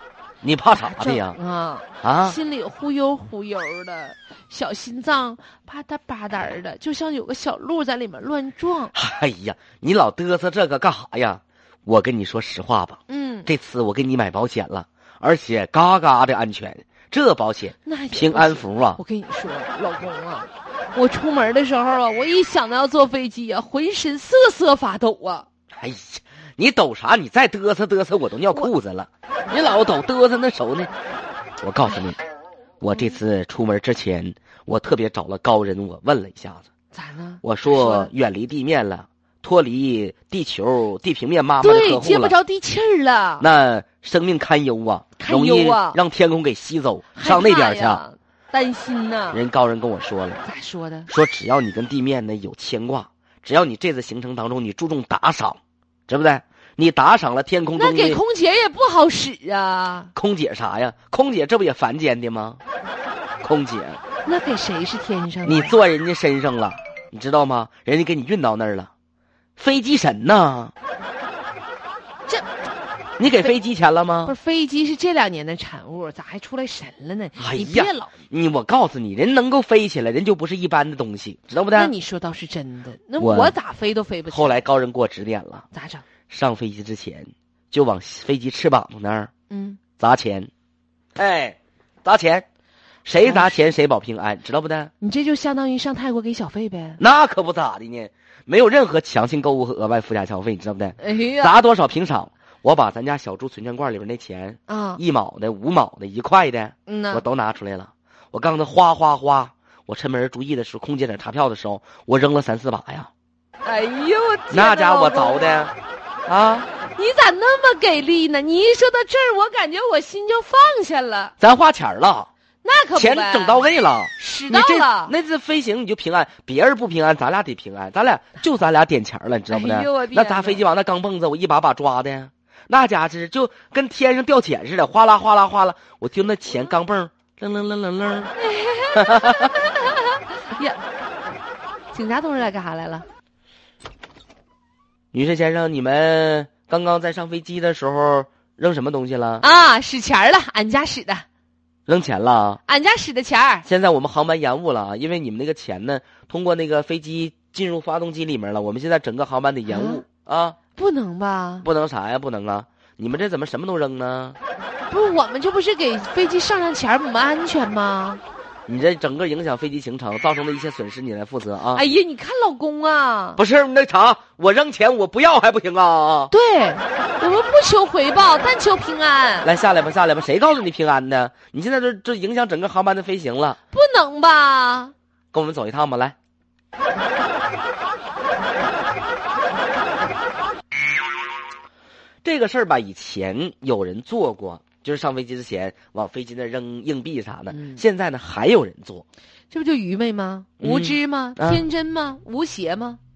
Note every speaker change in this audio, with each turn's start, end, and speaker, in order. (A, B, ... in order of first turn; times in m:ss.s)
0:00.4-0:01.4 A
0:00.8-0:08.9 B
0:02.0-0:02.4 A
0:08.9-0:19.0 A
0:13.1-0:13.5 B
0:17.8-0:25.5 B
0:25.8-0:30.9 A
0:31.6-0:32.2 A
0:32.8-0:36.7 A
0:36.9-0:38.1 B
0:37.4-0:42.4 A
0:41.6-0:43.5 B
0:43.4-0:48.0 A
0:45.2-0:46.0 B
0:47.1-0:49.4 B
0:49.3-0:50.4 A
0:50.4-0:51.1 B
0:51.1-0:58.2 A
0:57.8-1:00.1 B
1:00.1-1:02.6 A
1:03.4-1:04.0 A
1:04.2-1:05.8 B
1:05.4-1:08.9 A
1:09.6-1:10.7 A
1:13.2-1:14.3 A
1:14.2-1:18.2 B
1:17.4-1:21.9 A
1:21.7-1:24.6 B
1:23.2-1:23.6 A
1:24.3-1:25.6 A
1:25.7-1:26.0 B
1:26.3-1:29.3 A
1:29.5-1:29.8 B
1:30.0-1:30.5 A
1:31.2-1:32.4 A
1:33.0-1:34.9 A
1:33.2-1:33.6 B
1:35.0-1:37.0 B
1:37.0-1:53.1 A
1:41.0-1:41.6 B
1:44.7-1:45.0 B
1:46.9-1:47.2 B
1:53.6-1:55.7 B
1:54.5-1:55.7 A
1:56.2-1:56.7 A
1:56.8-2:01.3 B
2:01.4-2:02.3 A
2:02.6-2:03.7 B
2:03.0-2:18.3 A
2:04.2-2:05.1 B
2:09.5-2:10.6 B
2:18.4-2:20.8 B
2:18.9-2:19.5 A
2:21.9-2:23.1 B
2:25.1-2:29.5 A
2:29.4-2:31.2 B
2:31.9-2:32.6 A
2:32.6-2:33.7 B
2:33.6-2:40.6 A
2:39.6-2:40.0 B
2:40.8-2:41.6 B
2:41.6-2:44.4 A
2:44.9-2:48.2 B
2:48.7-2:51.8 A
2:51.7-2:53.4 B
2:53.4-2:56.3 A
2:56.3-2:59.5 B
2:59.4-3:03.6 A
3:03.7-3:04.9 B
3:05.3-3:06.2 A
3:12.2-3:19.0 A
3:17.5-3:17.8 B
3:19.5-3:23.0 B
3:20.6-3:21.6 A